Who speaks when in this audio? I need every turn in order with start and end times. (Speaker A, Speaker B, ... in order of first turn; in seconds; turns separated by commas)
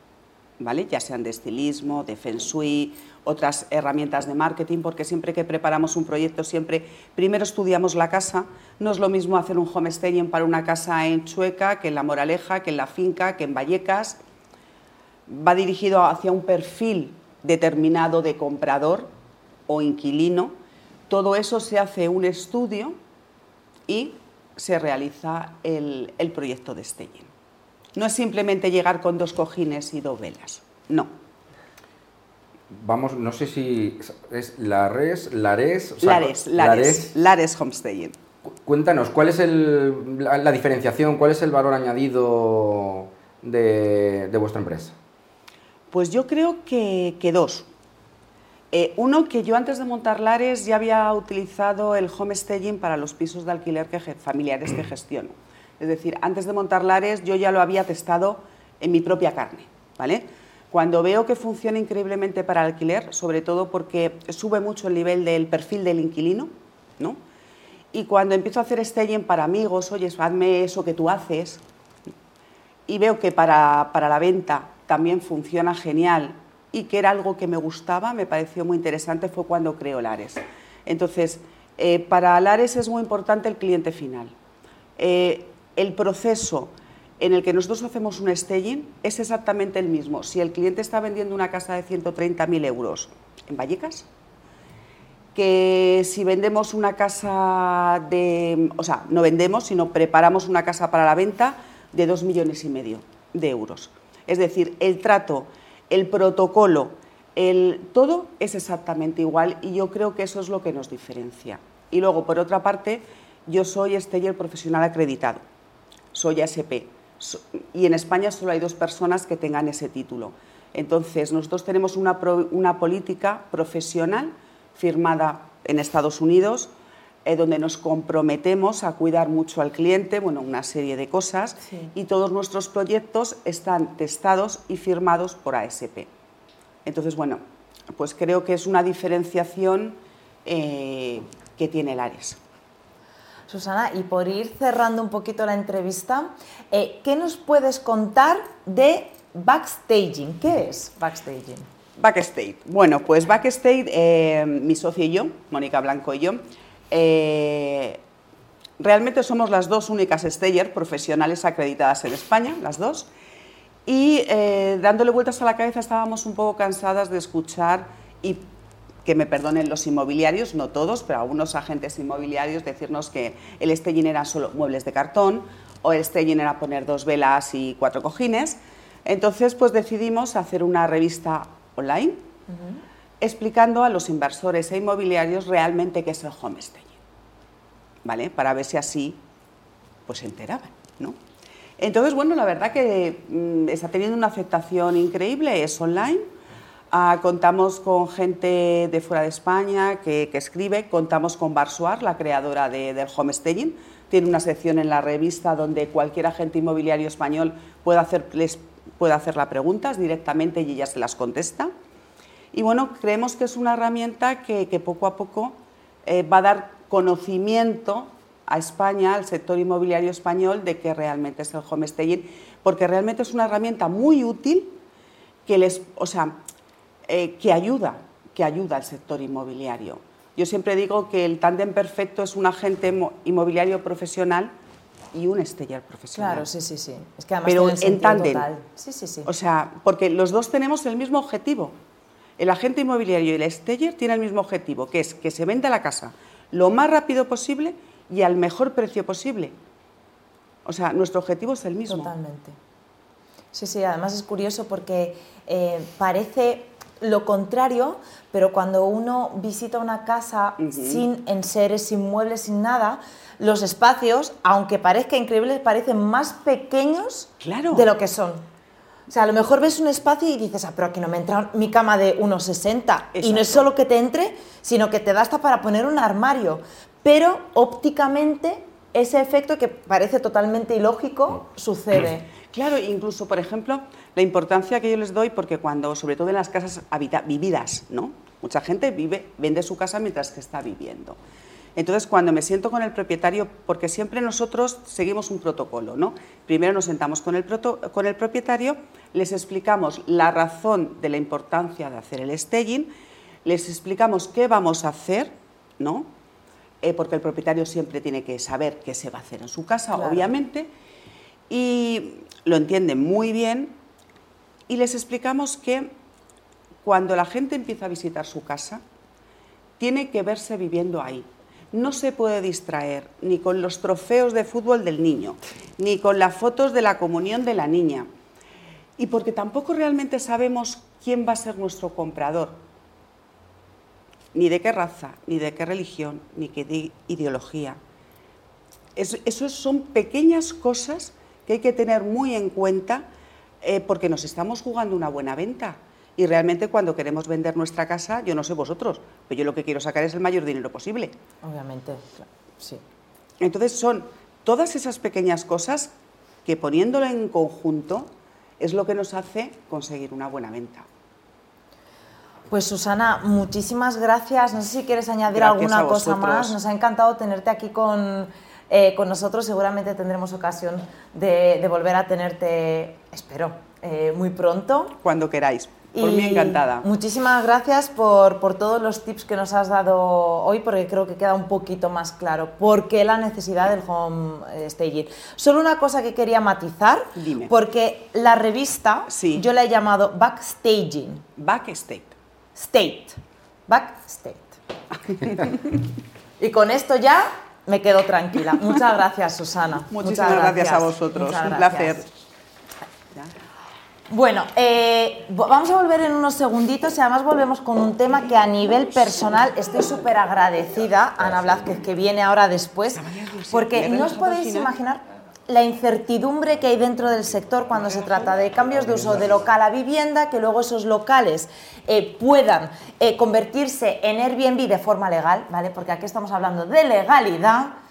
Speaker A: 0.6-14.2, Speaker A: 15.3-19.1, Speaker A: 19.7-20.5, Speaker A: 21.1-23.0, Speaker A: 23.9-27.3, Speaker A: 27.9-31.1, Speaker B: 32.7-37.1, Speaker A: 36.0-38.1, Speaker B: 38.6-44.9, Speaker A: 45.9-47.7, Speaker A: 48.7-67.2, Speaker A: 67.9-71.6, Speaker A: 72.9-84.3, Speaker A: 85.0-94.1, Speaker A: 95.3-115.4, Speaker A: 116.1-126.7, Speaker A: 127.2-136.1, Speaker C: 131.6-131.9, Speaker A: 136.8-137.4, Speaker A: 137.9-142.4, Speaker C: 143.5-151.7, Speaker A: 152.0-158.0, Speaker A: 158.8-163.1, Speaker A: 163.9-168.4, Speaker A: 169.0-182.2, Speaker A: 183.2-186.9, Speaker A: 188.0-189.2, Speaker A: 190.1-191.2, Speaker A: 191.8-196.2, Speaker A: 196.9-211.7, Speaker A: 212.5-224.8, Speaker A: 225.4-226.4, Speaker A: 227.1-234.5, Speaker A: 235.1-236.4, Speaker C: 236.1-239.3, Speaker A: 237.4-238.5, Speaker A: 239.2-241.8, Speaker A: 242.4-249.5, Speaker A: 250.6-252.1, Speaker C: 251.9-252.6, Speaker C: 253.5-268.4, Speaker A: 260.6-261.0, Speaker A: 267.4-267.9, Speaker C: 269.1-282.3, Speaker A: 273.1-273.7, Speaker A: 282.5-291.2, Speaker A: 291.8-302.9, Speaker A: 303.4-306.1, Speaker A: 306.8-310.7, Speaker C: 309.9-310.3, Speaker A: 311.5-313.8, Speaker A: 314.7-315.9, Speaker A: 316.8-318.8, Speaker A: 319.8-328.1, Speaker A: 329.0-332.6, Speaker A: 334.3-337.8, Speaker A: 338.9-343.0, Speaker A: 343.6-351.1, Speaker C: 351.4-352.8, Speaker A: 353.4-355.9, Speaker A: 356.4-358.1, Speaker A: 358.6-360.9, Speaker C: 362.5-375.0, Speaker A: 365.3-366.6, Speaker A: 375.0-376.9, Speaker C: 375.9-391.2, Speaker A: 387.1-387.5, Speaker A: 389.1-389.4, Speaker A: 391.4-392.1, Speaker C: 392.5-394.6, Speaker C: 396.4-402.1, Speaker A: 399.9-402.1, Speaker C: 404.1-427.7, Speaker A: 412.9-414.8